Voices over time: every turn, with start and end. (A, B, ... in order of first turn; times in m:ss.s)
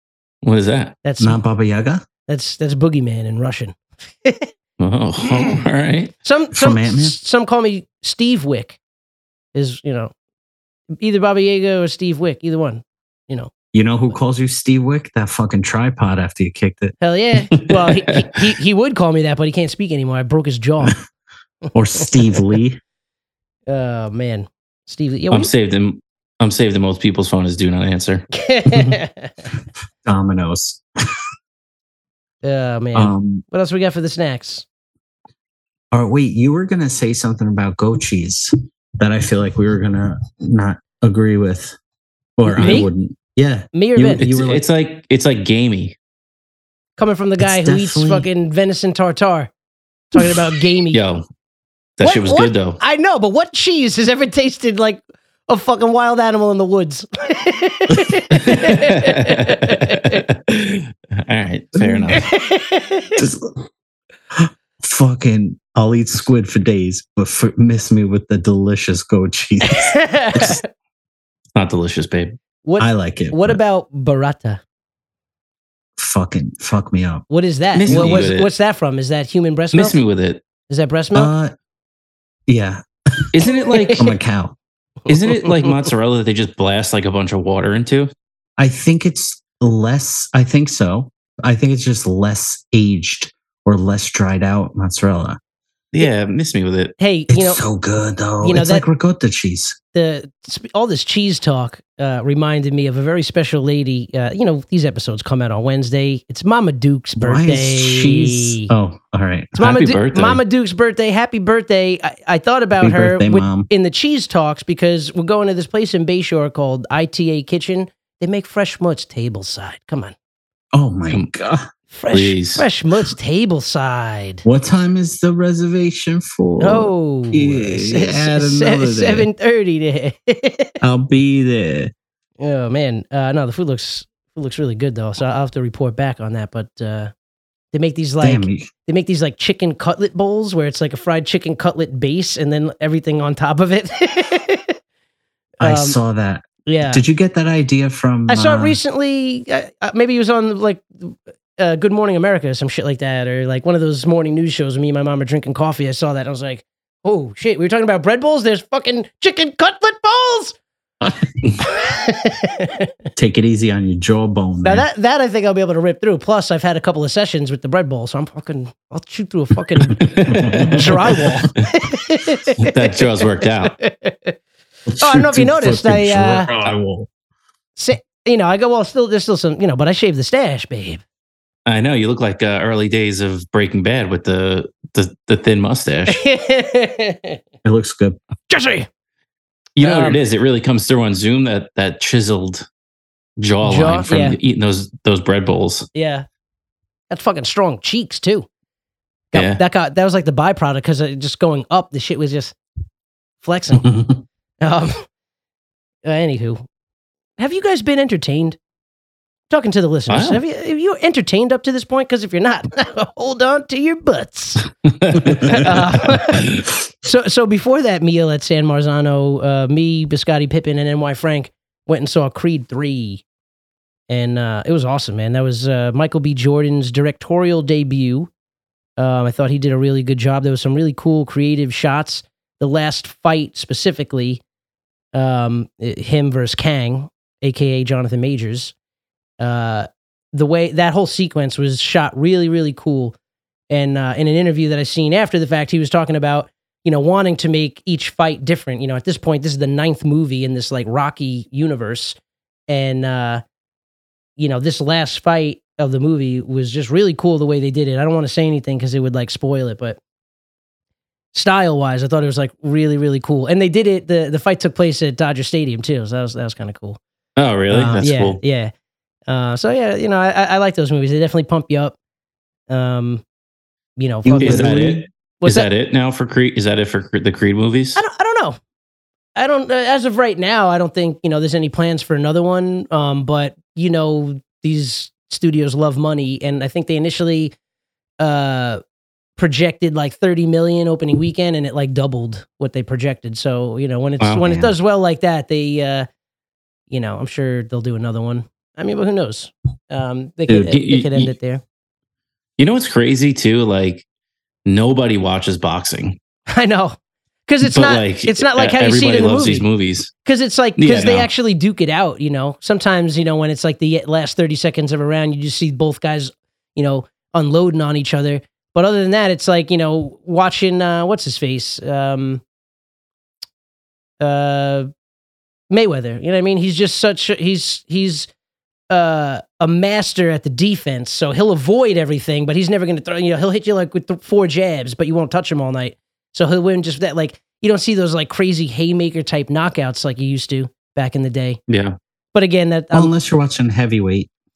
0:00.4-0:00.9 A
0:01.0-0:01.4 B
0:01.2-0:02.0 C
0:02.3-0:04.5 B
0:04.8-0:06.1 A
0:06.2-0:08.8 B
0:06.5-0:07.2 C
0:09.5-0:10.1 B
0:11.0-0:13.5 B
0:13.7-0:16.9 C
0:17.0-0:21.0 B
0:21.7-0:22.8 C
0:23.7-0:25.5 B
0:25.3-0:28.2 A
0:28.3-0:29.5 B
0:30.0-0:30.8 C
0:32.4-0:34.6 B
0:32.9-0:33.4 C
0:35.9-0:41.8 C
0:42.4-0:44.6 C
0:42.5-0:42.9 B
0:43.7-0:44.2 B
0:44.2-0:45.9 A
0:47.0-0:49.5 B
0:47.4-0:48.3 C
0:50.1-0:51.0 B
0:50.9-0:51.2 A
0:52.0-0:52.8 A
0:52.0-1:00.2 B
0:58.3-1:02.3 A
1:01.7-1:02.2 C
1:02.1-1:03.2 B
1:03.2-1:03.6 C
1:04.3-1:10.6 C
1:09.6-1:10.6 B
1:11.5-1:12.4 A
1:12.6-1:14.6 B
1:12.8-1:13.6 C
1:16.0-1:17.2 C
1:17.3-1:20.0 B
1:17.8-1:18.5 A
1:17.8-1:18.3 C
1:19.7-1:20.4 A
1:20.7-1:21.3 B
1:21.1-1:21.5 C
1:22.5-1:23.4 C
1:23.3-1:24.0 A
1:23.4-1:24.1 B
1:24.0-1:24.6 C
1:25.1-1:28.1 A
1:25.3-1:25.7 B
1:28.6-1:35.4 C
1:35.9-1:36.9 A
1:37.0-1:37.6 B
1:37.3-1:39.8 C
1:38.4-1:38.8 B
1:39.9-1:48.7 B
1:47.2-1:49.5 C
1:49.6-2:00.1 B
1:49.6-1:50.4 A
1:52.8-1:53.7 C
2:00.7-2:01.7 C
2:01.9-2:04.4 B
2:02.1-2:02.6 A
2:04.4-2:09.3 C
2:06.6-2:10.8 B
2:10.8-2:11.9 C
2:12.4-2:17.1 B
2:17.7-2:24.8 B
2:18.2-2:18.7 C
2:25.6-2:26.0 B
2:25.6-2:28.8 C
2:26.6-2:27.0 B
2:28.3-2:40.6 B
2:41.0-2:41.5 C
2:41.6-2:42.9 B
2:43.2-2:44.8 C
2:44.6-2:50.1 B
2:50.0-2:51.1 A
2:50.2-2:51.5 C
2:50.7-2:53.0 B
2:52.6-2:53.7 A
2:53.6-2:54.4 B
2:54.9-2:57.1 C
2:55.0-2:56.5 B
2:57.8-3:01.0 B
3:01.6-3:06.2 A
3:06.1-3:07.4 B
3:07.6-3:08.2 C
3:08.5-3:08.9 B
3:09.8-3:12.6 A
3:09.8-3:10.2 B
3:13.4-3:15.9 A
3:13.6-3:14.4 B
3:15.9-3:16.2 B
3:17.1-3:18.5 B
3:19.3-3:22.5 B
3:19.3-3:19.6 A
3:23.4-3:23.9 B
3:23.8-3:24.2 C
3:24.6-3:25.0 B
3:26.0-3:26.6 B
3:27.4-3:28.6 B
3:29.5-3:34.7 B
3:30.1-3:30.4 A
3:35.0-3:35.6 A
3:35.5-3:43.2 B
3:44.1-3:48.3 B
3:49.0-3:54.4 B
3:55.1-3:58.7 B
3:59.4-4:03.1 B
4:03.7-4:12.2 B
4:12.7-4:13.4 B
4:14.4-4:20.0 B
4:21.3-4:27.0 B
4:27.4-4:28.4 A
4:27.7-4:28.7 B
4:29.3-4:32.0 B
4:32.7-4:33.2 B
4:34.0-4:35.7 B
4:34.2-4:35.0 C
4:34.4-4:38.0 A
4:38.0-4:38.6 B
4:39.4-4:47.5 B
4:48.2-4:48.8 B
4:49.4-4:56.1 B
4:54.2-4:54.4 A
4:54.4-4:54.7 C
4:56.9-5:01.6 B
5:00.5-5:01.3 A
5:02.6-5:04.0 A
5:04.6-5:06.2 A
5:06.5-5:09.7 B
5:07.6-5:10.1 A
5:10.2-5:22.4 B
5:10.8-5:11.3 A
5:24.2-5:24.9 B
5:25.7-5:28.3 B
5:28.9-5:41.6 B
5:41.7-5:42.0 A
5:42.3-5:43.1 B
5:42.9-5:44.3 C